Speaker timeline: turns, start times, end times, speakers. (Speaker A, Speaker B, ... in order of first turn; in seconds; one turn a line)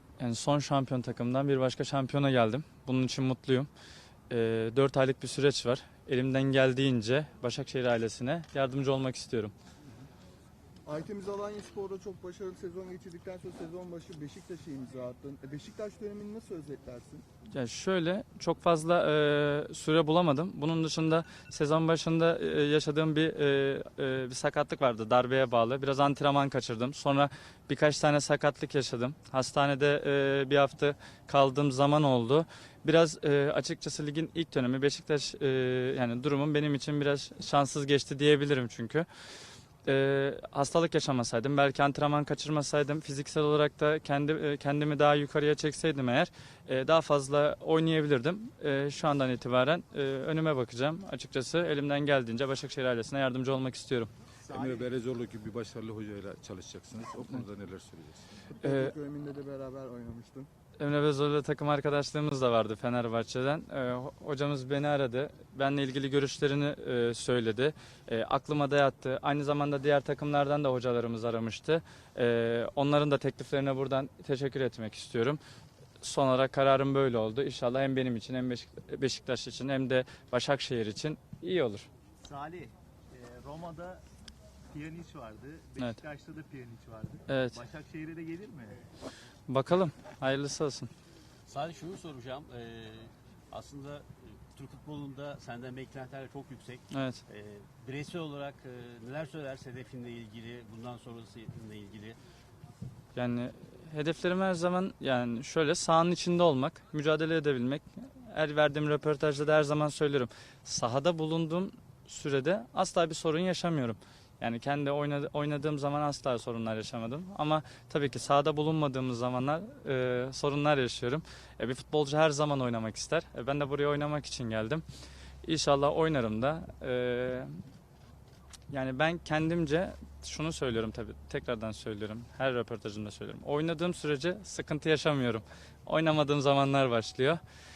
Speaker A: 0.2-3.7
Speaker A: 4.3-9.5
Speaker B: 10.8-17.2
Speaker A: 17.5-39.1
Speaker A: 39.8-54.1
Speaker C: 54.5-58.3
Speaker B: 58.5-60.5
Speaker A: 58.6-58.9
Speaker A: 60.8-75.4
Speaker A: 76.0-81.9
Speaker D: 82.2-84.0
Speaker D: 84.7-88.8
Speaker A: 85.8-86.0
Speaker A: 87.3-87.6
Speaker A: 89.5-90.9
Speaker E: 91.5-102.2
Speaker A: 96.9-97.2
Speaker A: 103.1-124.8
Speaker A: 125.4-127.5
Speaker A: 128.7-137.4